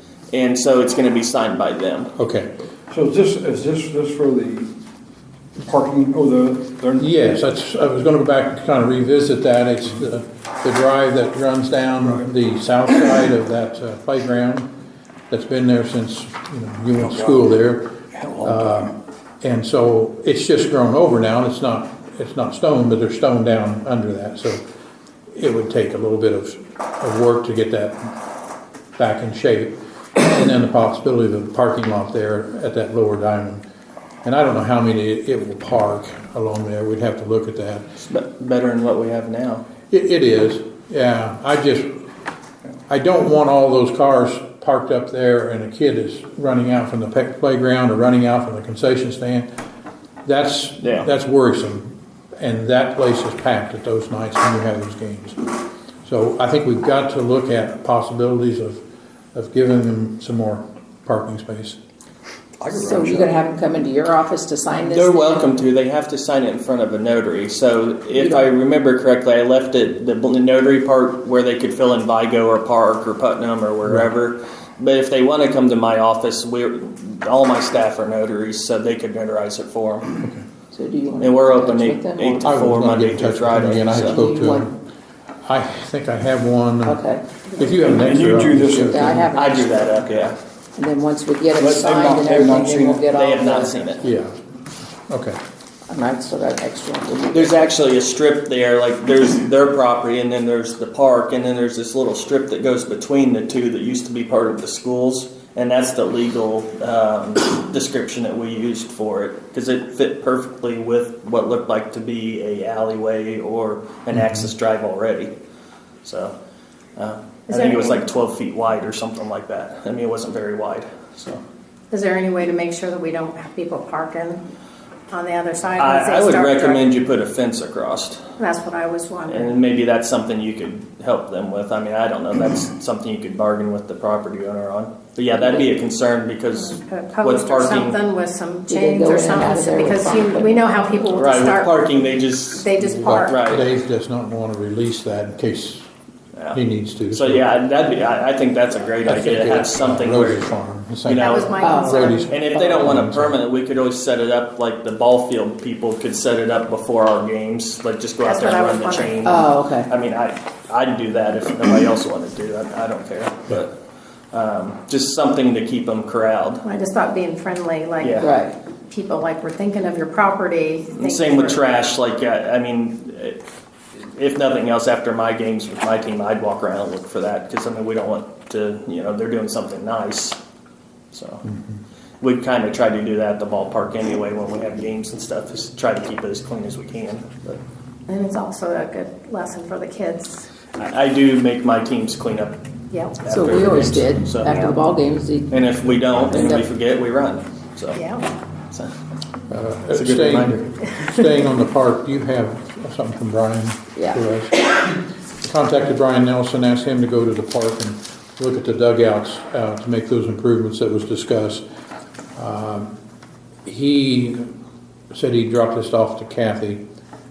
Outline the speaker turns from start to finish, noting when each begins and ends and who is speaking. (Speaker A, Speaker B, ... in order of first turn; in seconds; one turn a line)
Speaker A: 0.3-2.1
Speaker B: 2.2-2.5
Speaker C: 2.9-4.7
Speaker C: 5.6-7.2
Speaker B: 7.0-14.7
Speaker C: 12.0-12.3
Speaker B: 15.3-24.6
Speaker C: 17.0-17.5
Speaker C: 18.1-18.9
Speaker B: 25.3-28.1
Speaker B: 29.0-33.6
Speaker B: 34.2-37.9
Speaker A: 38.0-39.6
Speaker B: 39.9-41.9
Speaker B: 42.9-49.5
Speaker B: 50.2-55.4
Speaker A: 50.8-51.1
Speaker B: 56.0-58.8
Speaker B: 59.3-61.8
Speaker C: 62.6-63.4
Speaker D: 62.7-65.5
Speaker A: 64.8-80.1
Speaker D: 68.1-68.4
Speaker B: 80.2-80.5
Speaker D: 80.7-82.5
Speaker A: 81.2-84.2
Speaker B: 82.4-84.8
Speaker D: 83.9-84.7
Speaker B: 85.4-89.2
Speaker D: 86.8-87.2
Speaker C: 87.8-89.2
Speaker D: 88.9-90.0
Speaker A: 89.3-90.4
Speaker D: 90.8-93.8
Speaker C: 91.6-93.1
Speaker A: 93.1-94.0
Speaker B: 94.0-94.4
Speaker B: 95.1-95.4
Speaker D: 95.9-97.7
Speaker A: 97.3-115.3
Speaker B: 114.1-114.5
Speaker A: 116.0-116.3
Speaker A: 117.0-121.4
Speaker E: 117.5-118.0
Speaker E: 121.9-124.4
Speaker E: 125.1-126.8
Speaker A: 125.8-128.2
Speaker E: 128.4-129.6
Speaker A: 129.3-138.0
Speaker E: 136.7-143.4
Speaker D: 138.7-141.1
Speaker A: 141.1-142.7
Speaker B: 142.8-145.9
Speaker A: 143.2-143.7
Speaker B: 146.5-147.5
Speaker A: 147.1-150.5
Speaker B: 149.0-153.4
Speaker A: 151.0-163.7
Speaker E: 151.2-152.2
Speaker D: 151.6-153.0
Speaker E: 158.2-159.4
Speaker D: 159.2-159.9
Speaker A: 164.3-166.6
Speaker E: 166.6-168.3
Speaker A: 168.0-168.3
Speaker D: 168.2-168.5
Speaker E: 168.9-171.6
Speaker A: 171.0-173.4
Speaker A: 173.9-180.4
Speaker A: 181.1-181.4
Speaker B: 181.4-181.8
Speaker A: 182.2-187.6
Speaker E: 188.1-190.5
Speaker A: 190.8-192.6
Speaker E: 192.9-193.2
Speaker A: 193.2-194.8
Speaker D: 193.2-196.7
Speaker A: 195.5-198.0
Speaker E: 197.9-198.2
Speaker B: 199.5-211.6
Speaker A: 199.9-200.7
Speaker B: 212.3-212.9
Speaker B: 213.6-214.5
Speaker B: 215.1-216.8